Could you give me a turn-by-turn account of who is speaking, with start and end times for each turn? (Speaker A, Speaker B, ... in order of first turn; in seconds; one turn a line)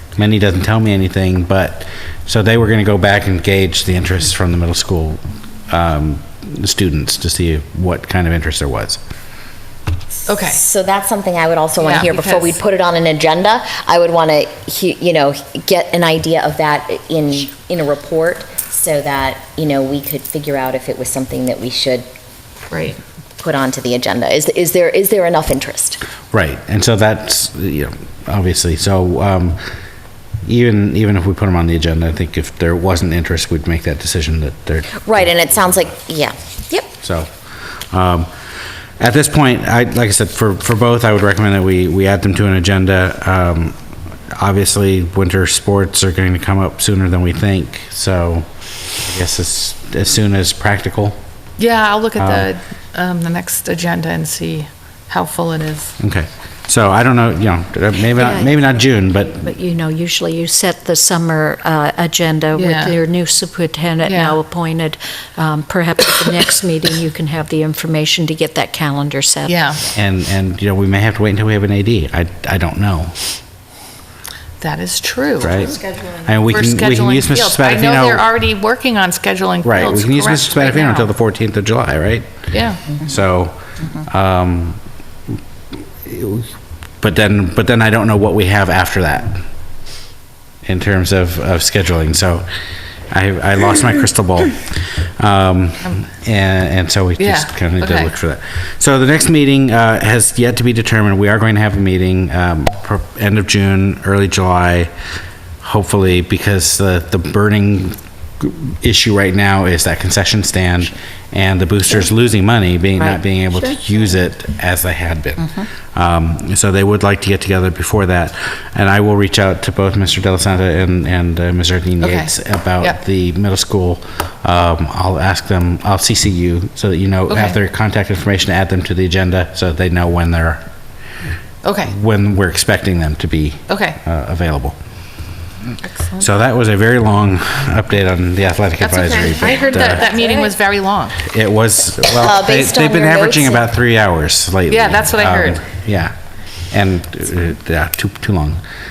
Speaker A: 0.2-9.0
Speaker B: 10.3-10.6
Speaker C: 10.4-22.1
Speaker B: 11.8-12.6
Speaker B: 22.7-23.0
Speaker C: 23.4-26.0
Speaker A: 26.3-29.6
Speaker A: 30.4-35.3
Speaker C: 35.0-36.9
Speaker A: 37.0-37.3
Speaker A: 37.9-38.3
Speaker A: 39.0-43.8
Speaker A: 44.3-51.2
Speaker B: 51.6-56.0
Speaker A: 52.2-52.5
Speaker A: 56.0-59.5
Speaker D: 58.2-58.5
Speaker D: 59.4-69.7
Speaker B: 62.6-63.0
Speaker B: 64.0-64.4
Speaker B: 69.5-69.8
Speaker A: 69.9-73.2
Speaker B: 74.6-75.6
Speaker A: 75.4-78.3
Speaker B: 76.5-81.1
Speaker A: 79.6-84.8
Speaker B: 82.5-82.8
Speaker A: 86.0-89.5
Speaker A: 90.7-92.5
Speaker A: 93.1-104.9
Speaker B: 97.2-98.1
Speaker A: 105.6-130.6
Speaker B: 122.0-123.0
Speaker B: 127.3-127.6
Speaker B: 131.6-131.9
Speaker A: 131.9-134.8
Speaker B: 133.7-134.0
Speaker B: 135.8-136.2
Speaker A: 136.2-140.1
Speaker C: 138.8-140.5
Speaker B: 139.2-141.2
Speaker A: 141.2-146.2
Speaker C: 142.2-143.7
Speaker B: 144.7-145.6
Speaker A: 146.7-148.6